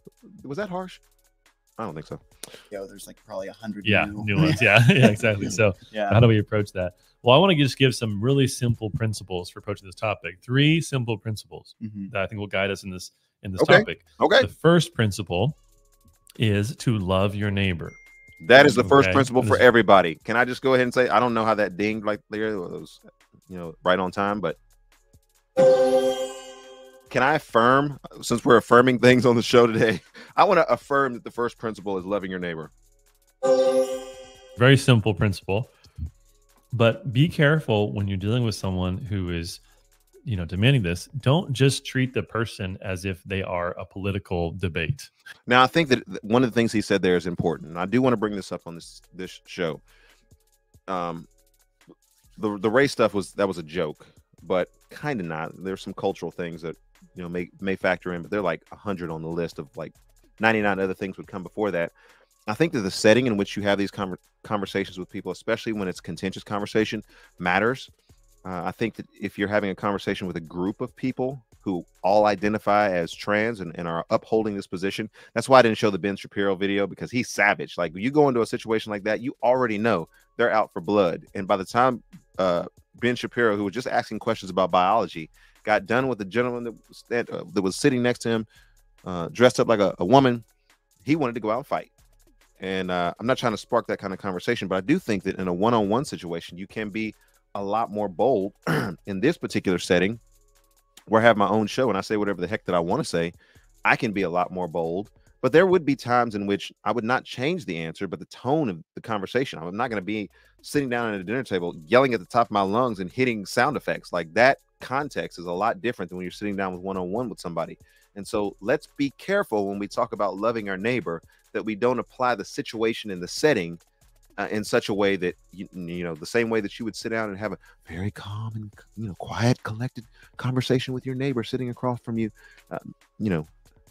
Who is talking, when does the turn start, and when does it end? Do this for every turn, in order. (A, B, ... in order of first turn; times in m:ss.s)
0:00.4-0:01.0 A
0:01.8-0:02.2 A
0:02.7-0:06.2 B
0:03.8-0:15.6 C
0:11.8-0:12.1 B
0:13.6-0:14.5 A
0:16.4-0:18.0 C
0:18.4-0:24.6 A
0:18.6-0:19.7 C
0:27.1-0:32.7 A
0:34.6-0:35.7 C
0:36.7-0:39.6 C
0:40.2-0:45.1 C
0:45.5-0:49.8 A
0:50.9-0:51.3 A
0:52.4-1:01.9 A
1:02.5-1:07.9 A
1:08.4-1:28.5 A
1:29.0-1:30.4 A
1:31.0-1:31.9 A
1:32.6-1:40.2 A
1:41.1-2:03.8 A
2:04.4-2:13.5 A